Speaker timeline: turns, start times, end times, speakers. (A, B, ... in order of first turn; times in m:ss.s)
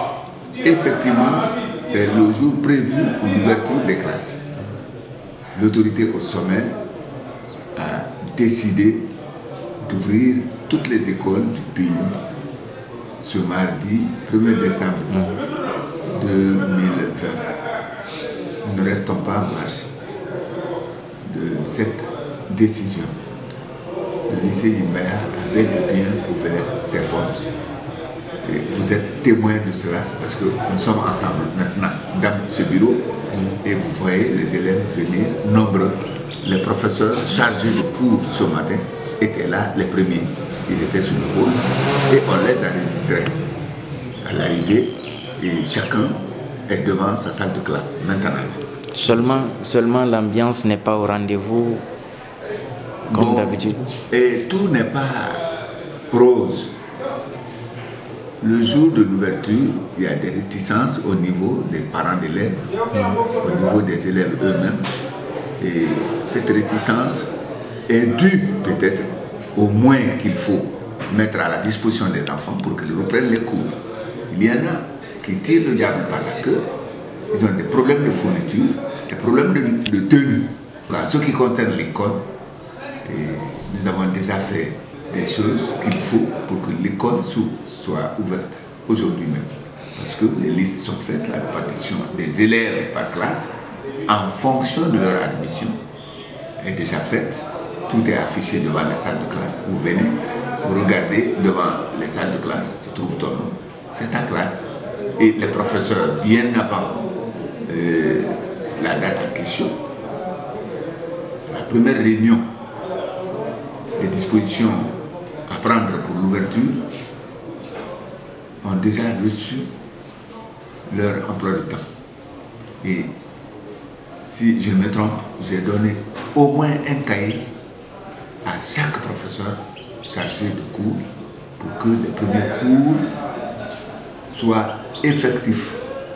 0:00.6-0:04.4 A
0:05.5-0:06.8 A
0:07.8-0:09.1 A
0:09.8-0:12.2 A
0:13.2-0:15.3 A
0:16.1-0:17.5 A
0:18.6-0:19.9 A
0:21.2-0:23.2 A
0:24.3-0:27.5 A
0:28.4-0:33.1 A
0:33.6-0:43.4 A
0:44.2-0:49.5 A
0:49.0-0:51.9 B
0:53.1-0:55.5 A
0:53.1-0:53.9 B
0:56.1-0:56.8 A
0:58.4-1:02.7 A
1:02.9-1:03.2 B
1:03.4-1:04.9 A
1:05.6-1:07.3 A
1:07.9-1:16.7 A
1:17.3-1:22.3 A
1:23.0-1:35.8 A
1:36.6-1:47.1 A
1:47.6-1:49.8 A
1:51.5-1:52.6 A
1:54.0-1:56.9 A
1:58.6-1:59.7 A
2:00.9-2:01.8 A
2:02.8-2:03.2 A
2:04.2-2:07.5 A
2:08.4-2:11.1 A
2:11.6-2:13.1 A
2:14.3-2:15.8 A